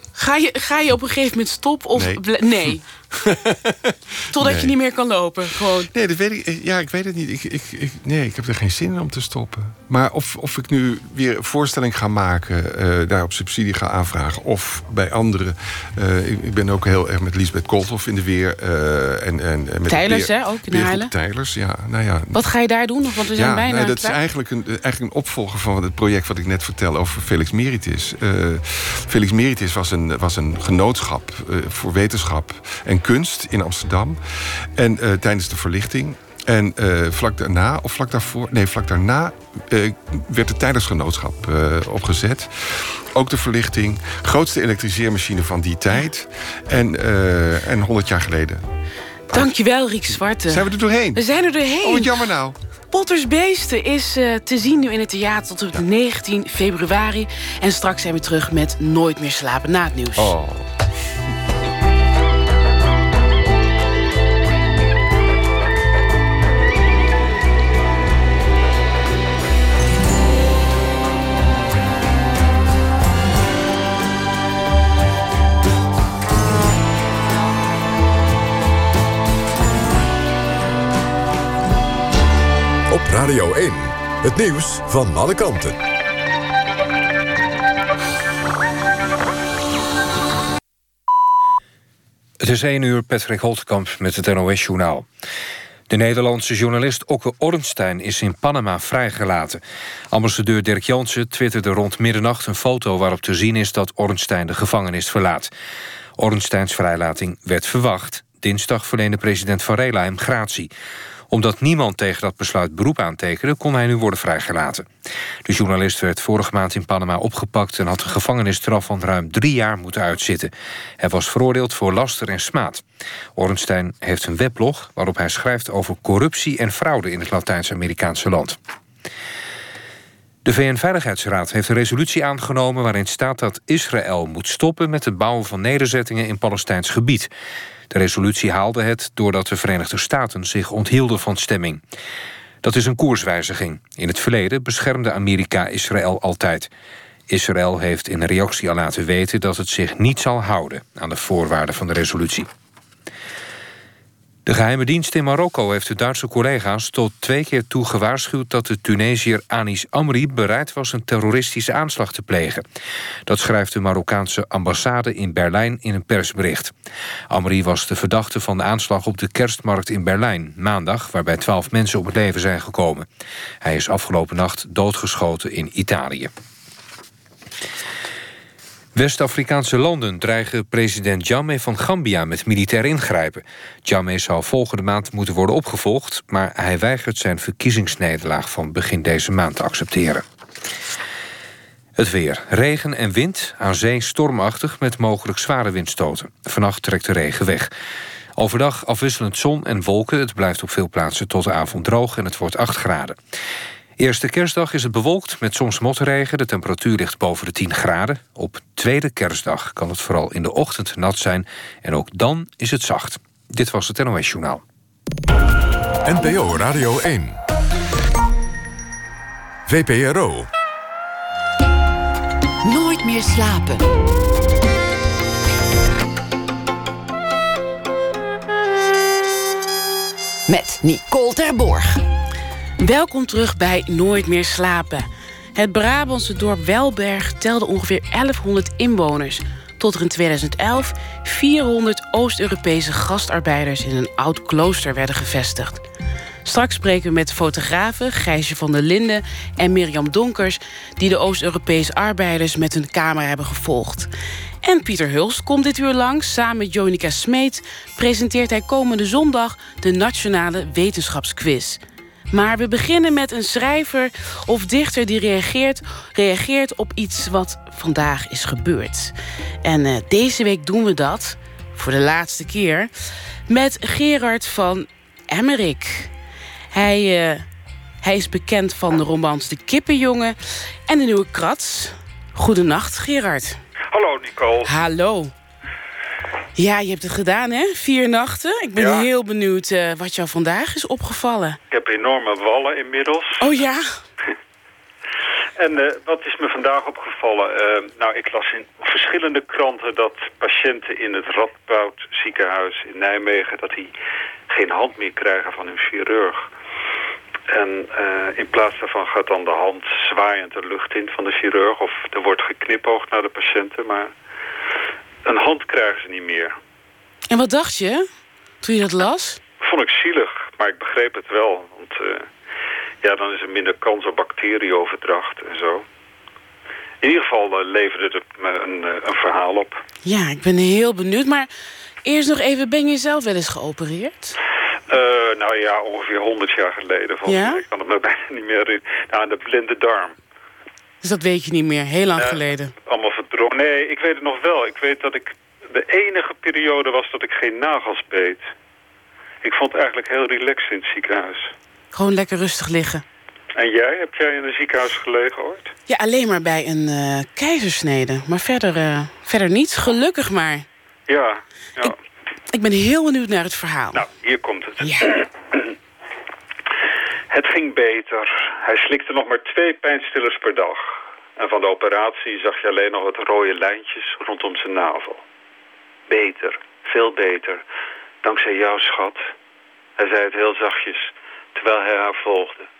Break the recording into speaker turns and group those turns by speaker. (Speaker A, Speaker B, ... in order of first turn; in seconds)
Speaker A: 0.1-2.8, 4.3-5.9, 19.9-21.1, 22.3-24.2, 49.3-52.2, 52.9-60.3, 232.8-245.8, 246.4-254.1, 254.6-261.8, 262.3-272.9, 273.5-276.1, 276.7-277.4, 278.0-280.4, 280.9-283.6, 284.6-285.3, 286.6-291.6, 293.4-293.9, 317.3-318.0, 318.6-319.4, 330.0-331.5, 332.0-334.3, 337.2-337.6, 341.0-342.7, 351.9-353.0, 355.9-360.6, 362.5-364.0, 364.8-365.2
Speaker B: 1.9-4.7, 5.8-22.4, 23.3-48.6, 50.1-51.2, 51.8-52.5, 60.2-60.6
Speaker C: 82.9-85.8, 216.0-217.4, 219.7-220.5
Speaker D: 92.4-95.1, 95.9-105.5, 106.2-110.7, 111.3-114.9, 115.4-122.8, 123.3-128.6, 130.4-137.3, 137.9-141.8, 142.6-146.7, 147.3-152.5, 154.4-162.6, 163.3-166.7, 167.3-173.1, 173.6-176.3, 178.9-190.2, 192.0-197.7, 198.4-203.2, 204.0-214.6
Speaker E: 222.6-223.9, 230.5-232.0
Speaker F: 283.9-284.7, 288.8-289.1, 291.7-293.5, 295.6-303.9, 304.5-306.5, 307.5-314.1, 315.2-316.6, 319.6-322.3, 323.0-325.8, 327.0-329.8, 334.9-340.2, 342.2-348.4, 349.4-351.5, 353.6-355.7, 361.1-361.9, 363.9-365.2, 367.3-375.2, 376.1-377.6, 378.2-379.2, 380.0-382.6